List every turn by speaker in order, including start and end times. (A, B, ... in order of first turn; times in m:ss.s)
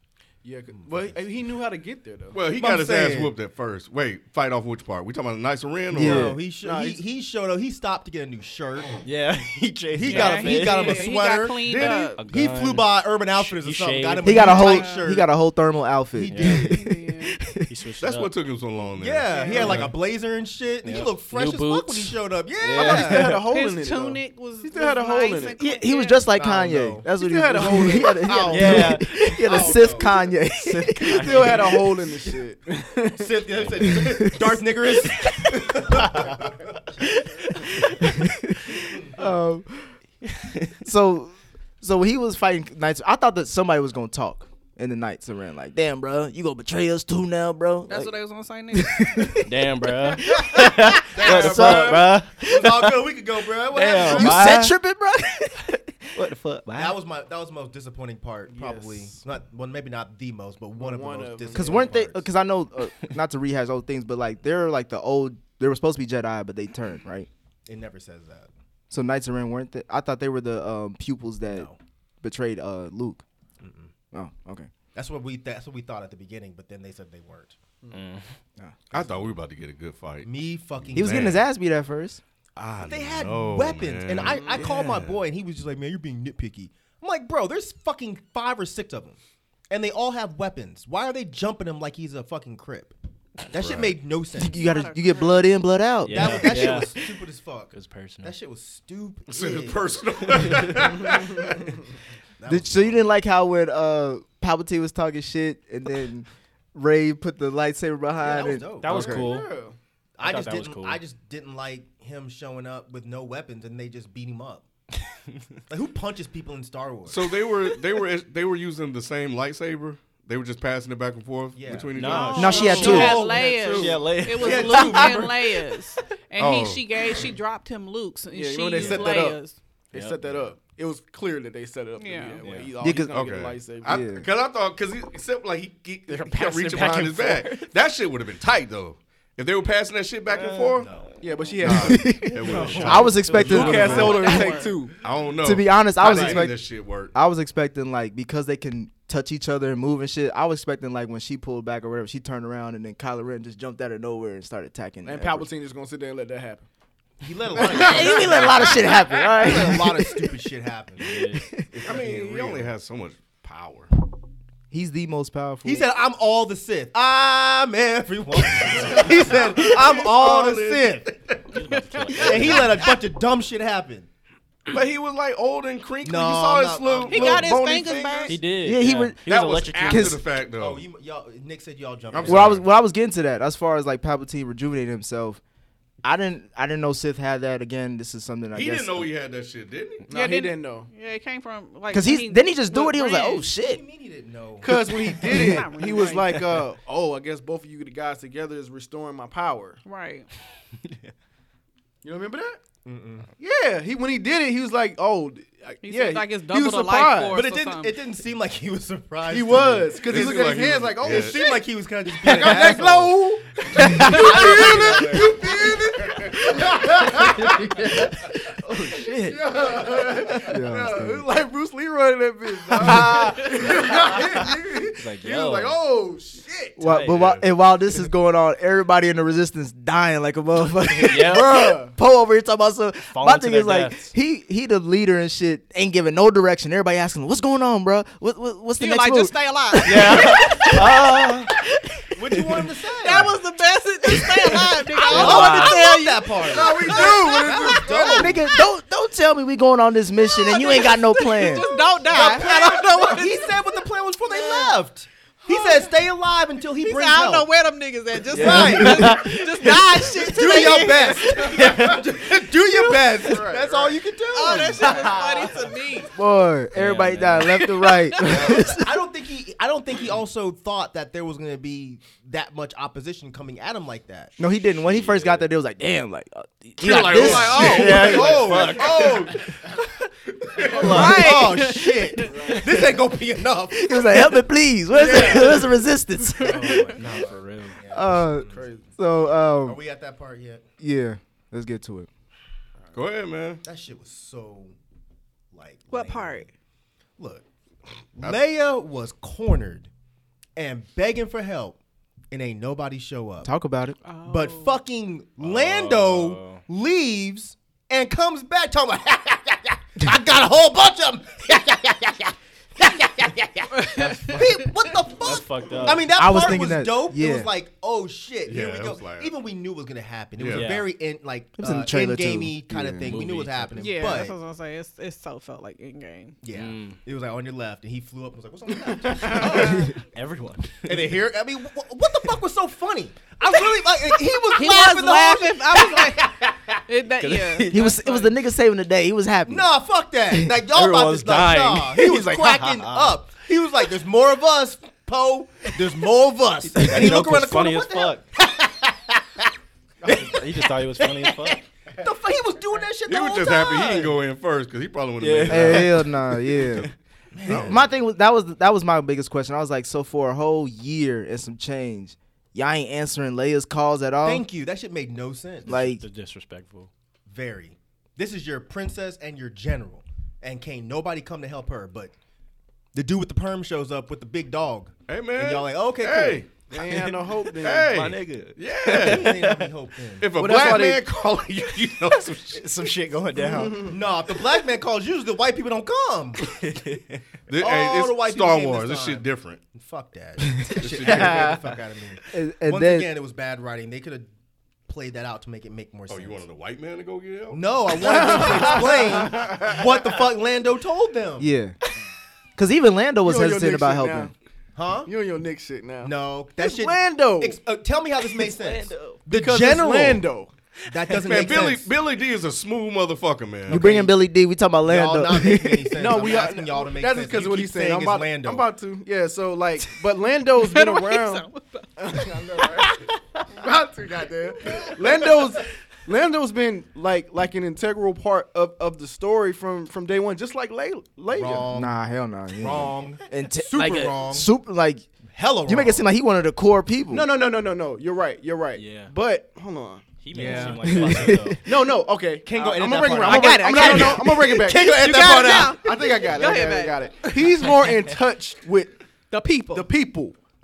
0:00.4-0:02.4 A
0:00.7-0:01.2 B
0:02.3-0:06.2 C
0:02.5-0:03.3 B
0:05.9-0:06.4 D
0:06.0-0:09.0 B
0:06.6-0:07.0 A
0:09.0-0:11.1 E
0:09.9-0:15.3 B
0:10.0-0:12.2 F
0:11.6-0:12.1 C
0:11.7-0:14.7 E
0:14.2-0:17.7 D
0:14.6-0:15.1 F
0:16.2-0:16.8 B
0:16.3-0:16.7 E
0:16.5-0:17.4 F
0:17.6-0:18.3 E
0:18.0-0:19.9 C
0:19.0-0:23.3 B
0:19.3-0:19.8 A
0:19.5-0:19.9 E
0:20.8-0:23.4 E
0:22.7-0:25.6 A
0:23.4-0:26.3 F
0:25.6-0:31.8 D
0:26.3-0:30.2 B
0:27.2-0:28.8 A
0:28.5-0:30.0 E
0:30.8-0:31.6 E
0:31.0-0:33.3 A
0:33.2-0:36.9 B
0:33.6-0:33.9 E
0:33.8-0:34.6 D
0:37.8-0:40.0 D
0:40.8-0:48.1 D
0:47.9-0:49.4 F
0:48.7-0:49.5 D
0:49.4-0:52.8 E
0:50.1-0:52.7 D
0:51.2-0:54.6 B
0:51.6-0:51.9 A
0:53.7-0:54.7 E
0:53.9-0:56.0 D
0:56.1-0:56.9 E
0:56.7-1:02.2 B
0:58.5-0:59.2 A
1:00.8-1:01.8 A
1:01.5-1:07.3 D
1:07.7-1:08.5 B
1:08.9-1:11.7 D
1:11.5-1:11.8 B
1:12.2-1:13.2 D
1:13.6-1:13.9 B
1:14.1-1:14.7 D
1:14.9-1:17.6 B
1:17.9-1:18.3 E
1:18.9-1:21.4 C
1:18.9-1:19.4 B
1:20.2-1:21.4 B
1:20.9-1:22.2 D
1:22.6-1:25.2 C
1:22.8-1:29.2 B
1:24.2-1:24.7 A
1:29.7-1:32.9 B
1:33.5-1:34.6 B
1:33.5-1:34.0 C
1:34.4-1:36.8 D
1:34.4-1:35.5 F
1:36.0-1:37.0 E
1:36.1-1:40.6 B
1:37.7-1:38.3 E
1:39.3-1:41.7 C
1:42.4-1:43.0 B
1:42.5-1:49.3 D
1:48.2-1:49.3 B
1:48.8-1:49.5 E
1:48.9-1:49.8 A
1:50.2-1:54.6 B
1:50.2-1:51.0 E
1:55.7-1:57.3 B
1:57.1-2:03.9 C
2:01.5-2:05.5 B
2:01.9-2:05.2 E
2:02.1-2:09.6 F
2:02.4-2:03.2 D
2:06.4-2:06.8 C
2:08.3-2:09.4 A
2:08.8-2:09.1 E
2:09.9-2:10.5 E
2:09.9-2:14.0 A
2:12.0-2:12.4 F
2:12.4-2:12.7 E
2:12.8-2:13.2 D
2:13.1-2:20.9 C
2:13.8-2:14.3 D
2:16.1-2:17.7 E
2:20.3-2:21.5 E
2:20.8-2:21.1 B
2:21.2-2:22.2 A
2:21.6-2:24.2 C
2:21.6-2:24.5 D
2:22.4-2:24.6 E
2:22.5-2:23.2 B
2:23.3-2:24.9 A
2:23.5-2:24.8 F
2:25.0-2:27.1 C
2:25.4-2:35.5 D
2:26.1-2:26.4 B
2:35.0-2:36.7 A
2:37.2-2:41.2 B
2:37.6-2:38.6 A
2:37.6-2:40.3 D
2:41.0-2:41.5 E
2:41.3-2:41.7 D
2:41.7-2:43.9 C
2:41.7-2:42.7 B
2:44.7-2:45.9 D
2:45.6-2:51.1 B
2:48.7-2:51.4 C
2:51.5-2:52.9 E
2:51.6-2:52.4 F
2:52.2-2:54.1 B
2:54.7-2:58.4 C
2:56.0-2:57.6 B
2:57.1-2:58.4 F
2:58.2-3:00.2 E
2:58.6-2:59.2 D
2:59.2-3:00.9 C
2:59.8-3:00.2 D
3:00.5-3:02.6 B
3:02.1-3:02.6 C
3:02.2-3:05.4 D
3:06.0-3:09.1 D
3:08.5-3:10.0 C
3:10.1-3:10.9 A
3:10.1-3:13.5 F
3:11.9-3:13.8 D
3:13.6-3:15.4 B
3:14.6-3:19.8 A
3:15.3-3:16.4 F
3:19.8-3:20.3 F
3:22.0-3:22.6 A
3:22.8-3:23.3 B
3:23.4-3:27.4 A
3:25.8-3:28.0 F
3:27.3-3:33.2 B
3:29.3-3:31.6 A
3:30.0-3:31.4 C
3:32.2-3:37.8 A
3:33.8-3:36.1 B
3:38.7-3:39.4 E
3:38.9-3:39.3 D
3:39.2-3:46.8 A
3:40.4-3:41.2 D
3:42.8-3:43.3 D
3:45.0-3:45.8 E
3:46.8-4:01.6 D
3:46.8-3:47.2 E
3:47.1-3:47.4 C
3:51.0-3:51.5 E
3:51.2-3:51.9 A
3:53.1-3:54.1 E
3:58.8-4:00.8 F
3:59.8-4:01.4 E
4:02.1-4:03.3 B
4:02.9-4:08.6 F
4:05.0-4:08.4 B
4:05.1-4:05.8 E
4:06.5-4:08.3 A
4:08.1-4:11.7 D
4:10.2-4:13.8 F
4:12.1-4:17.5 B
4:14.3-4:14.7 F
4:15.5-4:15.8 F
4:16.8-4:21.6 F
4:18.3-4:19.3 B
4:18.3-4:19.8 E
4:18.4-4:19.2 D
4:20.1-4:25.7 B
4:21.5-4:22.0 E
4:22.7-4:23.2 F
4:23.2-4:24.0 A
4:24.3-4:26.1 F
4:26.1-4:29.0 D
4:26.7-4:27.6 E
4:27.9-4:28.2 F
4:28.2-4:34.3 B
4:34.4-4:38.6 D
4:34.8-4:35.4 E
4:36.8-4:39.4 C
4:37.1-4:39.1 E
4:37.6-4:39.1 A
4:37.6-4:38.8 B
4:40.7-4:44.0 B
4:40.7-4:41.1 A
4:40.8-4:42.5 F
4:40.8-4:41.3 E
4:42.3-4:42.6 A
4:43.7-4:46.9 D
4:44.9-4:45.7 A
4:46.4-4:48.7 B
4:46.8-4:47.8 E
4:47.9-4:49.8 D
4:48.5-4:48.9 A
4:49.6-4:50.6 B
4:50.8-4:52.1 D
4:52.9-4:53.6 C
4:53.6-4:54.7 B
4:55.5-4:56.5 B
4:55.9-4:56.5 F
4:57.2-4:57.4 B
4:58.2-4:59.9 B
5:00.6-5:01.8 B
5:02.3-5:03.5 B
5:03.4-5:04.0 D
5:04.0-5:04.8 F
5:04.2-5:24.3 B
5:05.4-5:06.6 E
5:13.7-5:14.7 F
5:14.0-5:14.5 E
5:15.1-5:16.1 E
5:16.1-5:17.5 D
5:18.4-5:19.3 C
5:20.4-5:20.8 C
5:20.5-5:20.9 E
5:21.6-5:23.2 D
5:23.0-5:24.1 E
5:23.8-5:26.4 F
5:26.4-5:29.9 B
5:26.5-5:27.0 E
5:29.2-5:31.2 E
5:30.8-5:36.8 B
5:34.5-5:36.3 F
5:36.9-5:38.3 F
5:37.2-5:38.0 E
5:37.7-5:39.7 D
5:39.4-5:49.5 B
5:40.7-5:43.2 E
5:46.6-5:48.2 E
5:50.0-5:54.2 B
5:50.0-5:51.6 E
5:53.0-5:56.8 C
5:55.2-5:56.9 E
5:55.5-5:56.9 D
5:57.3-5:57.8 B
5:57.4-5:57.8 C
5:57.5-6:04.4 D
6:04.2-6:05.8 B
6:05.6-6:06.0 D
6:05.6-6:06.9 E
6:07.3-6:12.1 B
6:12.9-6:16.4 B
6:15.1-6:16.5 C
6:16.7-6:17.9 A
6:16.7-6:19.7 E
6:17.6-6:19.4 C
6:18.9-6:20.3 B
6:20.2-6:22.6 C
6:20.3-6:21.1 A
6:22.5-6:23.9 E
6:23.5-6:23.9 A
6:23.8-6:26.4 B
6:26.4-6:27.2 E
6:27.5-6:29.6 C
6:27.6-6:34.3 B
6:30.8-6:31.6 C
6:31.1-6:31.5 E
6:32.3-6:33.1 D
6:34.9-6:36.4 B
6:36.1-6:37.6 C
6:37.5-6:41.5 B
6:38.0-6:39.2 A
6:38.3-6:38.7 C
6:39.2-6:39.7 C
6:41.4-6:41.8 D
6:42.6-6:44.3 D
6:43.2-6:44.3 A
6:44.7-6:45.1 B
6:45.0-6:47.6 A
6:46.0-6:50.2 B
6:48.4-6:49.2 E
6:49.3-6:50.5 A
6:50.9-6:51.9 B
6:51.2-6:53.9 C
6:53.7-6:54.1 B
6:53.7-6:56.0 D
6:54.8-6:58.6 B
6:56.0-7:03.0 A
7:00.6-7:03.1 F
7:03.5-7:11.7 A
7:11.3-7:12.0 B
7:11.7-7:15.1 D
7:12.6-7:14.5 B
7:15.3-7:16.0 B
7:15.6-7:17.3 D
7:17.1-7:20.0 A
7:18.7-7:19.1 E
7:20.2-7:21.6 E
7:20.3-7:21.3 B
7:20.8-7:21.6 D
7:21.6-7:29.0 A
7:22.4-7:25.8 B
7:23.1-7:27.1 F
7:29.3-7:29.9 F
7:29.7-7:30.3 A